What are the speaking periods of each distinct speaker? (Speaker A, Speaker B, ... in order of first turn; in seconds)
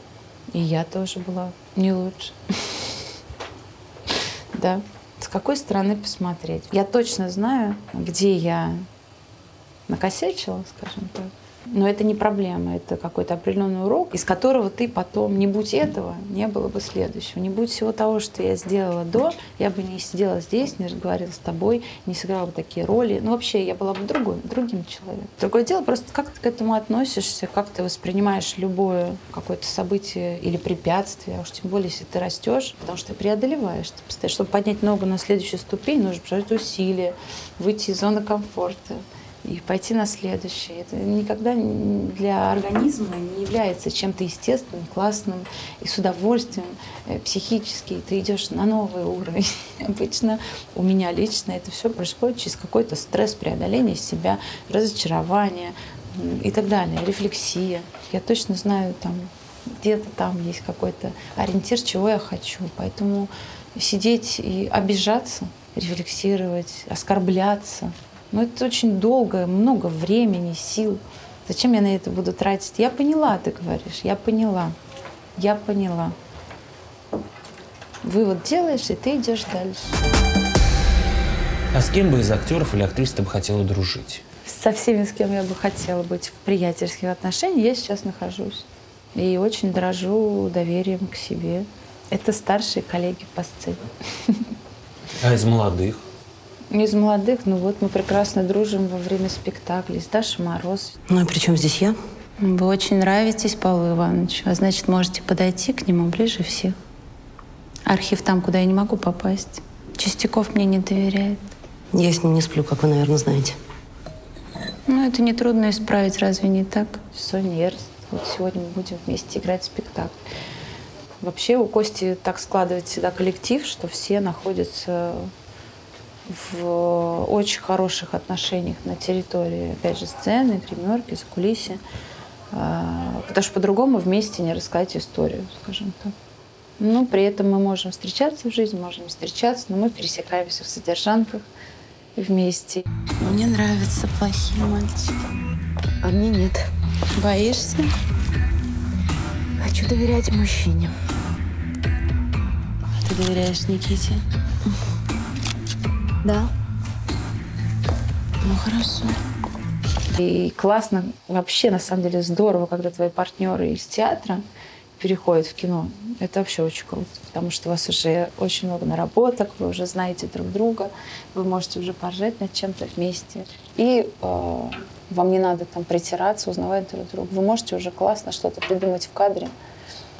Speaker A: 0.5-3.0, 4.5-8.9, 9.9-74.8, 75.4-76.2, 78.0-80.0, 84.4-94.5, 96.7-101.0, 102.4-106.8, 107.9-111.5, 114.9-120.2, 121.2-125.3, 126.3-131.8, 132.5-136.1, 136.8-141.5, 142.1-145.2, 146.0-146.6, 147.1-147.9, 149.6-150.9, 153.0-154.2, 156.2-156.5, 158.4-159.2, 160.1-164.5, 165.0-179.6
Speaker B: 81.7-84.2, 95.2-96.0
Speaker C: 101.1-102.0, 111.9-113.5